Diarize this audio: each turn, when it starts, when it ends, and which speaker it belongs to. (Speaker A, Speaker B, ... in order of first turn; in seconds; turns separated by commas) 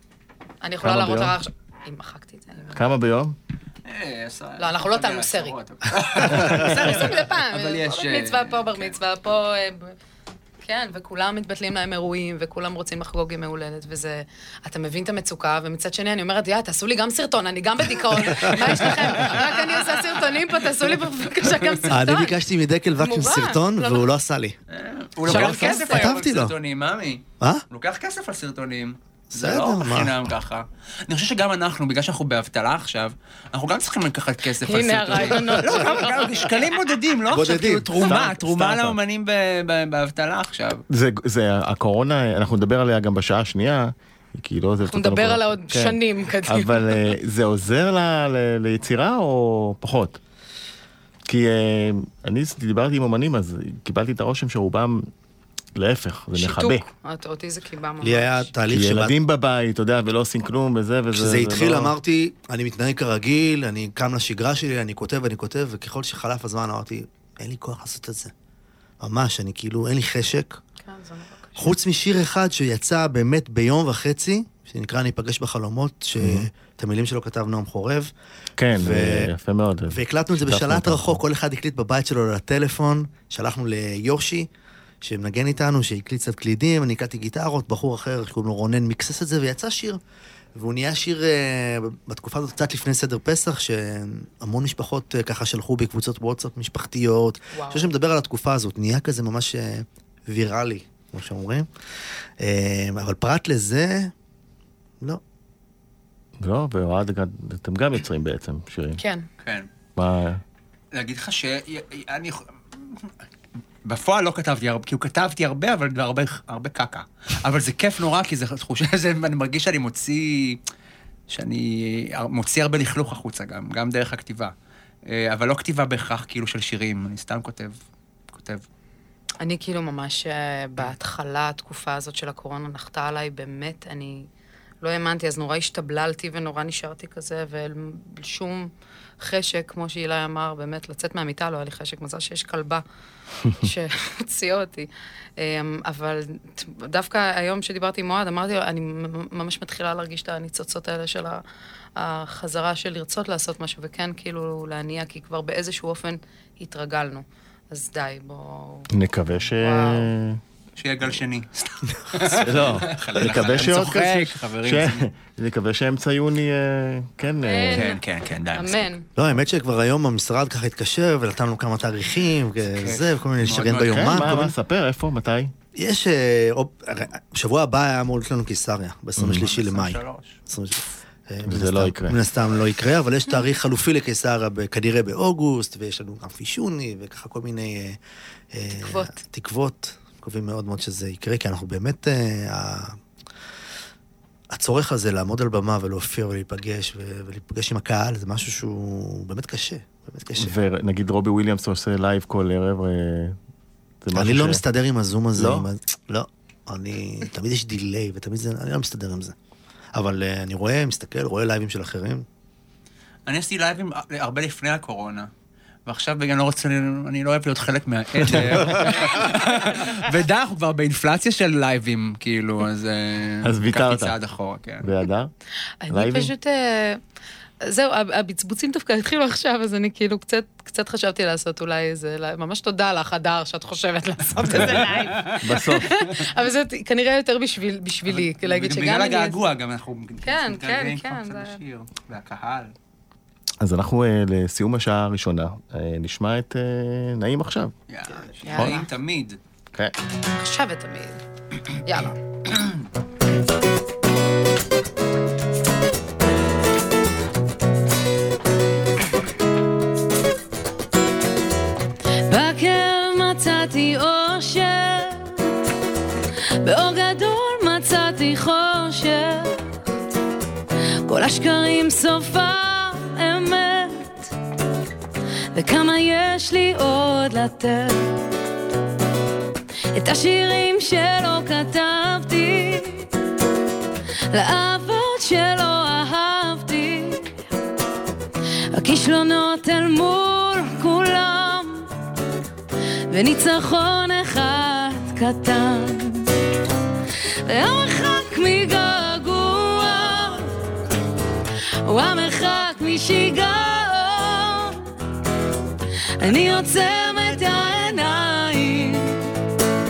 Speaker A: 0.6-2.8, Speaker B: 0.8-1.3, Speaker B: 2.7-3.4, Speaker C: 3.9-8.9, Speaker A: 4.6-5.6, Speaker B: 6.3-6.7, Speaker A: 6.5-9.9, Speaker A: 10.6-22.4, Speaker C: 18.9-19.4, Speaker C: 21.5-21.9, Speaker D: 21.9-24.6, Speaker A: 23.0-24.1, Speaker C: 24.7-40.8, Speaker B: 25.3-25.8, Speaker D: 25.3-26.5, Speaker A: 25.4-26.1, Speaker D: 29.3-30.2, Speaker A: 34.6-36.1, Speaker D: 37.3-37.9, Speaker B: 38.0-39.0, Speaker B: 40.9-50.2, Speaker A: 44.9-46.8, Speaker B: 51.2-55.0, Speaker B: 55.7-56.8, Speaker A: 56.3-58.5, Speaker D: 58.0-59.1, Speaker B: 58.7-61.9, Speaker D: 61.1-68.3, Speaker D: 69.0-70.6, Speaker A: 70.8-71.7, Speaker D: 71.6-78.1, Speaker B: 76.2-76.5, Speaker B: 78.6-81.2, Speaker D: 78.7-79.3, Speaker D: 79.9-84.5, Speaker D: 85.0-90.0, Speaker D: 90.5-101.7, Speaker A: 97.5-97.9, Speaker D: 102.4-104.1, Speaker B: 106.4-109.0, Speaker A: 109.0-109.3, Speaker B: 110.0-110.4, Speaker C: 110.9-113.1, Speaker C: 113.8-120.6, Speaker C: 121.3-124.5, Speaker C: 125.1-127.7, Speaker C: 128.3-128.6, Speaker A: 129.4-134.3, Speaker A: 134.8-142.8, Speaker A: 143.5-151.4, Speaker A: 151.9-158.9, Speaker B: 158.9-160.4, Speaker A: 159.6-160.1, Speaker C: 160.8-165.0, Speaker B: 162.3-167.9, Speaker A: 167.4-168.0, Speaker C: 167.7-168.9, Speaker A: 168.5-169.1, Speaker D: 169.2-174.5, Speaker C: 172.6-174.4, Speaker B: 173.8-175.5, Speaker D: 175.7-188.0, Speaker B: 179.2-179.5, Speaker C: 179.4-180.4, Speaker B: 181.4-182.2, Speaker D: 188.5-192.9, Speaker A: 188.8-189.2, Speaker D: 194.5-200.6, Speaker B: 200.3-203.4, Speaker B: 204.0-204.6, Speaker D: 204.1-209.3, Speaker B: 205.3-205.7, Speaker D: 209.9-212.2, Speaker C: 213.3-215.3, Speaker C: 215.8-224.9, Speaker D: 218.3-218.8, Speaker B: 223.4-224.1, Speaker B: 224.8-225.3, Speaker A: 225.8-227.0, Speaker B: 225.9-226.3, Speaker A: 227.6-239.4, Speaker C: 234.4-235.4, Speaker B: 234.5-234.8, Speaker B: 235.4-236.0, Speaker C: 238.1-242.7, Speaker A: 240.2-241.6, Speaker B: 243.6-247.7, Speaker C: 247.9-249.4, Speaker A: 248.4-248.9, Speaker B: 248.6-248.8, Speaker A: 250.3-251.2, Speaker A: 251.8-252.1, Speaker E: 262.3-265.5, Speaker E: 266.6-269.6, Speaker E: 271.0-274.3, Speaker E: 275.5-278.1, Speaker E: 279.9-283.1, Speaker E: 284.3-287.4, Speaker E: 288.7-291.9, Speaker E: 293.1-296.3, Speaker E: 297.4-300.5, Speaker E: 301.8-304.8, Speaker E: 306.1-309.2